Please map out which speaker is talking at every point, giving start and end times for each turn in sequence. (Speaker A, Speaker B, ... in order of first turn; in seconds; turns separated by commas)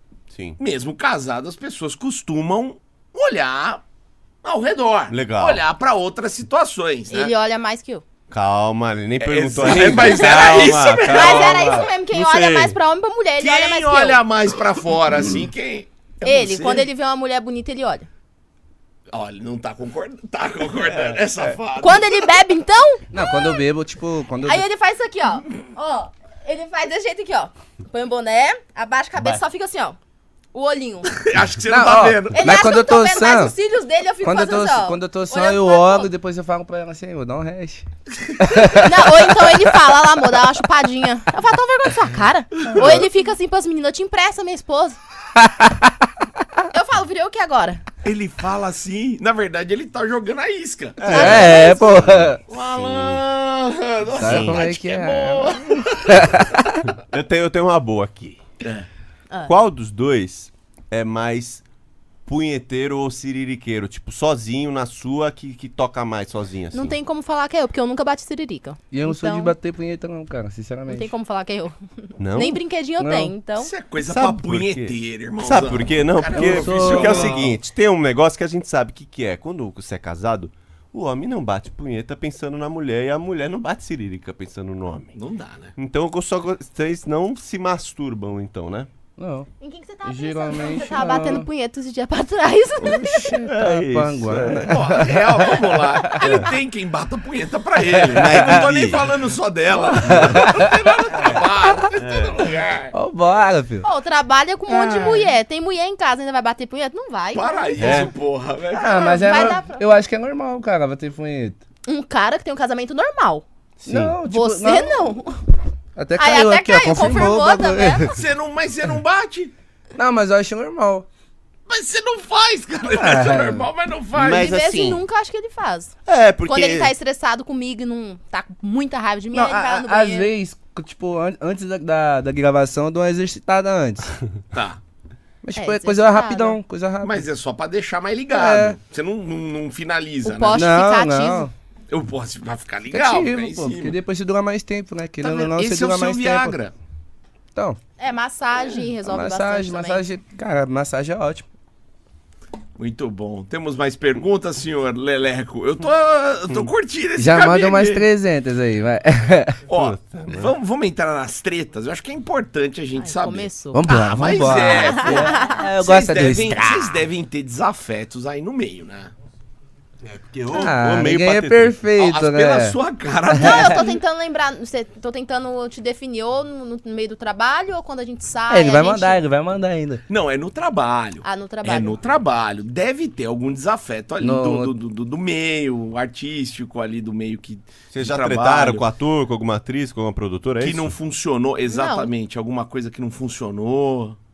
Speaker A: 0.3-0.6, Speaker B: 0.6-3.8, Speaker B: 4.4-7.3, Speaker A: 5.1-5.6, Speaker C: 7.1-8.0, Speaker A: 8.3-12.8, Speaker B: 9.2-11.8, Speaker C: 11.0-14.2, Speaker B: 13.4-16.9, Speaker C: 16.2-18.1, Speaker B: 19.1-22.1, Speaker C: 21.8-23.6, Speaker D: 23.1-24.6, Speaker C: 24.4-30.0, Speaker C: 30.5-31.2, Speaker B: 31.2-32.5, Speaker D: 31.6-33.5, Speaker C: 32.4-36.1, Speaker D: 34.2-37.9, Speaker D: 38.4-39.6, Speaker C: 38.7-45.0, Speaker B: 42.7-43.0, Speaker D: 45.3-46.1, Speaker C: 46.7-47.8, Speaker B: 48.0-51.5, Speaker A: 51.0-53.2, Speaker D: 51.1-52.4, Speaker C: 51.1-52.1, Speaker B: 52.5-56.3, Speaker D: 54.2-56.8, Speaker A: 54.2-54.6, Speaker A: 57.0-58.4, Speaker B: 58.6-58.9, Speaker A: 59.5-61.6, Speaker A: 62.2-67.0, Speaker C: 66.7-69.5, Speaker D: 68.9-71.1, Speaker C: 70.9-73.7, Speaker A: 72.2-72.6, Speaker D: 73.0-73.3, Speaker B: 73.6-77.5, Speaker A: 74.0-85.1, Speaker D: 76.3-77.5, Speaker B: 85.1-85.7, Speaker A: 85.8-88.9, Speaker D: 89.2-89.5, Speaker C: 89.6-93.4, Speaker D: 90.0-91.5, Speaker D: 92.8-96.2, Speaker A: 93.4-94.7, Speaker B: 94.6-102.9, Speaker A: 98.1-99.1, Speaker D: 100.0-100.7, Speaker A: 100.1-100.5, Speaker A: 102.0-102.5, Speaker D: 102.9-103.9, Speaker C: 103.8-107.8, Speaker B: 107.3-109.4, Speaker A: 107.8-108.1, Speaker D: 108.7-111.6, Speaker C: 108.8-109.8, Speaker C: 111.8-113.4, Speaker A: 113.8-114.2, Speaker D: 113.8-115.2, Speaker C: 114.2-115.4, Speaker D: 116.0-118.1, Speaker C: 116.2-118.1, Speaker B: 118.1-119.5, Speaker D: 119.9-121.1, Speaker B: 121.7-124.6, Speaker D: 122.9-123.7, Speaker A: 124.1-125.0, Speaker C: 124.3-126.0, Speaker A: 126.0-126.9, Speaker C: 126.5-130.3, Speaker D: 129.3-134.1, Speaker B: 134.5-134.8, Speaker D: 135.4-137.2, Speaker C: 135.6-136.6, Speaker B: 137.0-140.7, Speaker D: 138.3-138.8, Speaker C: 140.2-141.5, Speaker D: 140.5-141.5, Speaker B: 141.9-144.0, Speaker D: 142.9-146.6, Speaker B: 145.2-146.7, Speaker D: 147.5-147.8, Speaker C: 148.0-150.0, Speaker D: 149.0-151.4, Speaker B: 152.8-158.1, Speaker D: 157.2-159.6, Speaker B: 159.7-169.1, Speaker A: 159.7-160.5, Speaker C: 163.0-163.9, Speaker D: 163.7-167.0, Speaker C: 164.5-165.6, Speaker A: 170.0-171.8, Speaker D: 170.5-172.8, Speaker B: 172.0-173.8, Speaker D: 173.3-173.9, Speaker C: 173.3-179.2, Speaker D: 178.5-180.0, Speaker B: 180.1-188.9, Speaker C: 181.2-182.0, Speaker D: 184.2-184.8, Speaker A: 187.9-190.9, Speaker B: 190.6-194.2, Speaker C: 191.7-192.1